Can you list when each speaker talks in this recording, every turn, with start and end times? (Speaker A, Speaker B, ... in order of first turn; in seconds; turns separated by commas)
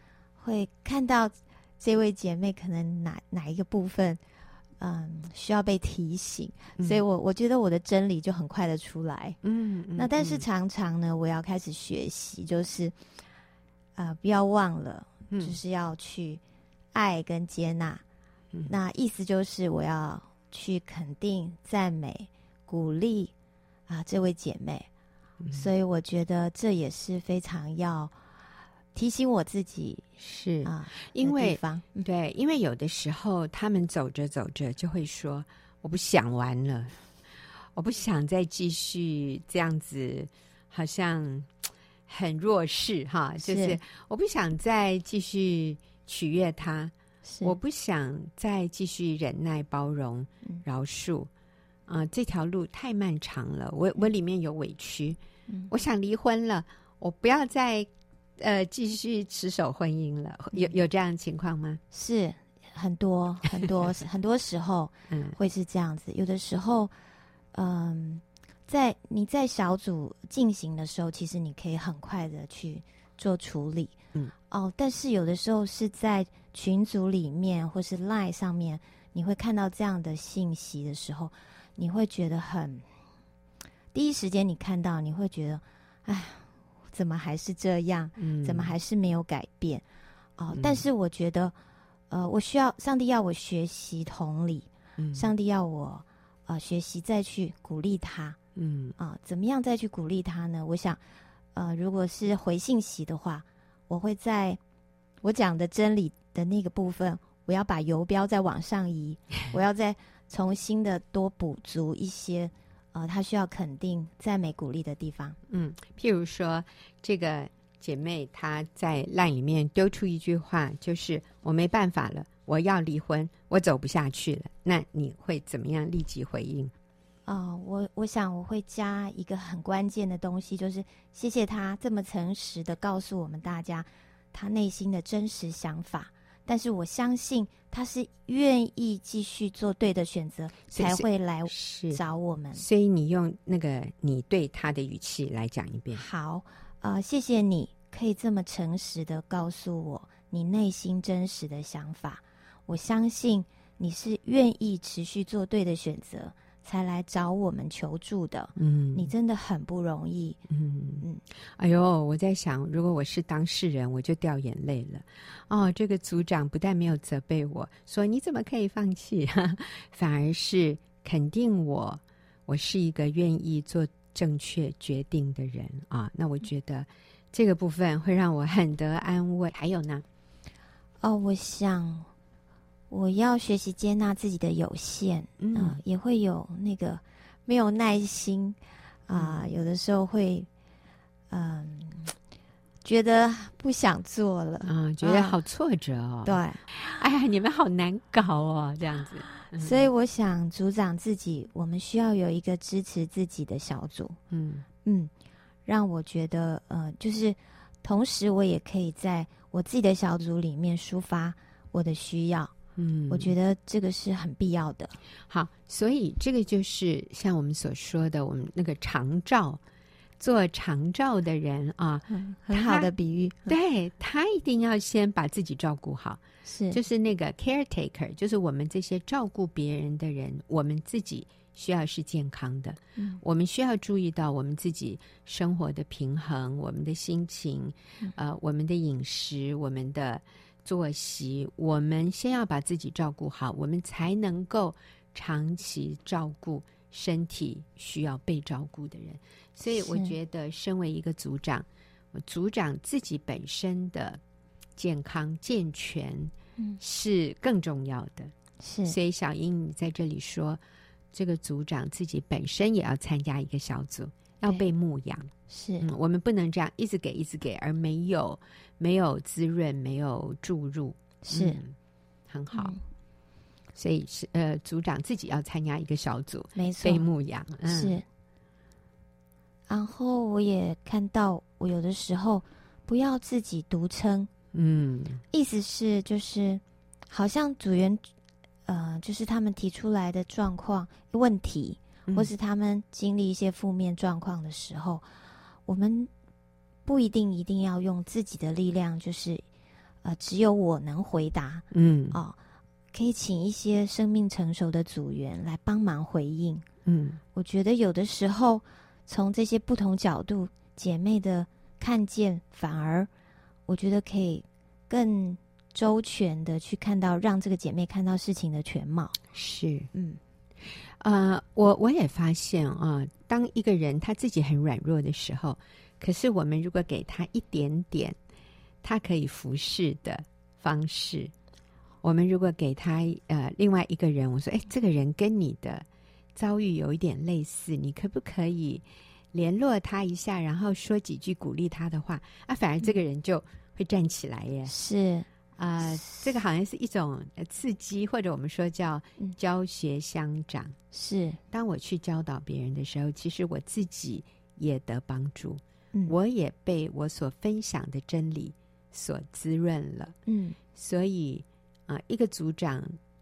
Speaker A: 0.4-4.2, Speaker A: 4.8-9.4, Speaker B: 6.8-7.0, Speaker B: 9.4-10.4, Speaker A: 10.0-12.9, Speaker A: 14.0-16.4, Speaker B: 15.3-15.6, Speaker A: 16.9-18.0, Speaker A: 18.7-23.3, Speaker A: 23.9-24.9, Speaker B: 25.4-25.7, Speaker A: 25.5-28.1, Speaker A: 28.9-30.1, Speaker B: 30.2-37.0, Speaker A: 30.6-32.1, Speaker B: 37.8-41.5, Speaker B: 42.1-51.3, Speaker A: 43.4-43.8, Speaker A: 47.3-47.6, Speaker B: 51.9-55.2, Speaker B: 55.7-61.8, Speaker A: 61.9-66.9, Speaker B: 65.1-65.4, Speaker A: 67.5-74.0, Speaker A: 74.5-82.9, Speaker A: 83.9-89.8, Speaker B: 88.2-88.7, Speaker A: 90.4-91.5, Speaker B: 90.5-90.8, Speaker A: 92.1-98.4, Speaker B: 95.0-95.3, Speaker B: 98.6-99.0, Speaker A: 99.0-101.0, Speaker A: 101.5-104.6, Speaker A: 105.2-115.4, Speaker B: 115.5-126.7, Speaker A: 127.3-142.6, Speaker B: 140.7-142.0, Speaker B: 142.5-146.0, Speaker A: 145.9-160.4, Speaker B: 158.6-159.1, Speaker B: 160.5-161.1, Speaker B: 161.6-180.0, Speaker A: 181.0-182.1, Speaker A: 182.9-190.5, Speaker B: 185.4-185.8, Speaker B: 189.2-189.4, Speaker A: 191.3-192.1, Speaker A: 192.8-195.4, Speaker B: 194.6-199.9, Speaker A: 196.2-196.6, Speaker A: 199.6-204.2, Speaker B: 204.3-204.7, Speaker A: 204.8-205.1, Speaker A: 205.7-212.5, Speaker B: 212.8-213.3, Speaker A: 213.1-215.0, Speaker B: 215.3-219.6, Speaker B: 220.2-222.9, Speaker A: 222.1-223.6, Speaker B: 223.5-254.2, Speaker A: 226.4-226.8, Speaker A: 249.7-250.2, Speaker B: 254.8-258.3, Speaker A: 258.6-259.0, Speaker B: 258.9-260.6, Speaker B: 261.1-271.8, Speaker A: 265.5-265.9, Speaker A: 271.2-271.6, Speaker B: 272.3-272.8, Speaker A: 272.5-272.8, Speaker B: 273.8-278.0, Speaker A: 276.6-277.1, Speaker A: 277.6-278.1, Speaker A: 279.7-284.3, Speaker B: 284.5-285.2, Speaker A: 285.3-288.1, Speaker A: 288.7-295.1, Speaker A: 295.7-296.1, Speaker A: 296.9-299.4, Speaker A: 300.0-302.4, Speaker B: 301.7-302.2, Speaker A: 302.9-306.6, Speaker B: 306.9-307.2, Speaker A: 307.3-313.1, Speaker A: 313.7-319.2, Speaker B: 319.3-319.9, Speaker A: 319.9-320.2, Speaker B: 321.0-328.2, Speaker B: 328.8-331.3, Speaker B: 332.0-344.7, Speaker A: 344.7-345.3, Speaker B: 345.6-350.8, Speaker A: 350.9-351.4, Speaker B: 351.5-360.2, Speaker A: 360.3-360.6, Speaker B: 360.7-363.0